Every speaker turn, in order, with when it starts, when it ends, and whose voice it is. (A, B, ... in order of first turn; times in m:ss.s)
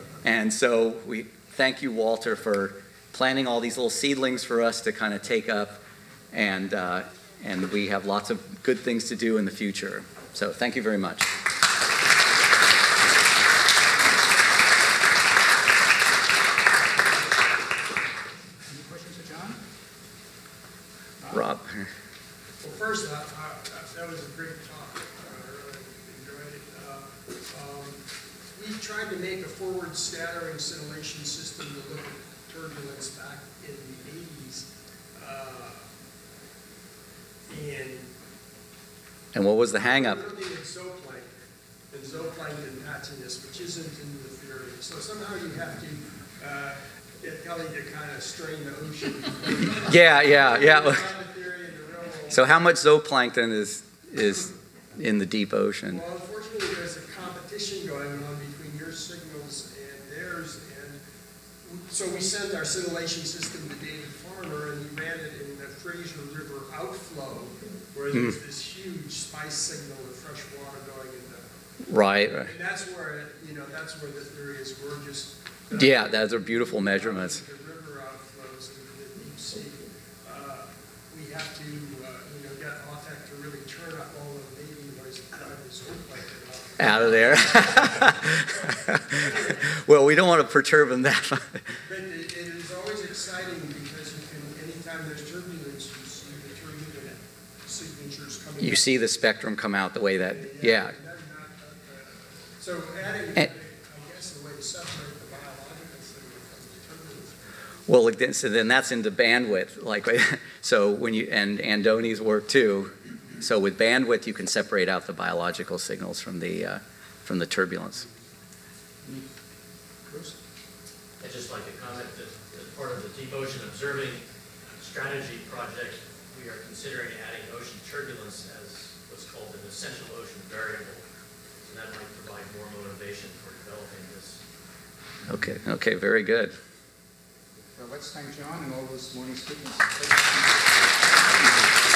0:00.2-0:11.3 A
0:18.7-0:19.6 B
0:21.2-0:21.5 B
0:21.3-0:21.8 A
0:22.6-0:28.0 C
0:28.5-0:35.9 C
0:37.5-0:38.1 C
0:39.3-0:40.2 A
0:39.8-0:41.3 C
0:41.9-0:52.5 C
0:49.8-0:51.1 A
0:52.3-0:56.0 A
0:55.9-1:01.0 C
1:01.6-1:11.5 C
1:08.1-1:08.4 A
1:11.9-1:12.5 A
1:12.4-1:29.6 C
1:15.7-1:17.4 A
1:26.8-1:31.6 A
1:31.8-1:39.0 C
1:38.6-1:40.9 A
1:40.2-1:47.3 C
1:47.9-1:58.0 A
2:00.1-2:00.4 B
2:01.2-2:04.2 D
2:04.8-2:11.0 D
2:11.6-2:14.4 D
2:15.3-2:16.5 A
2:17.7-2:20.6 B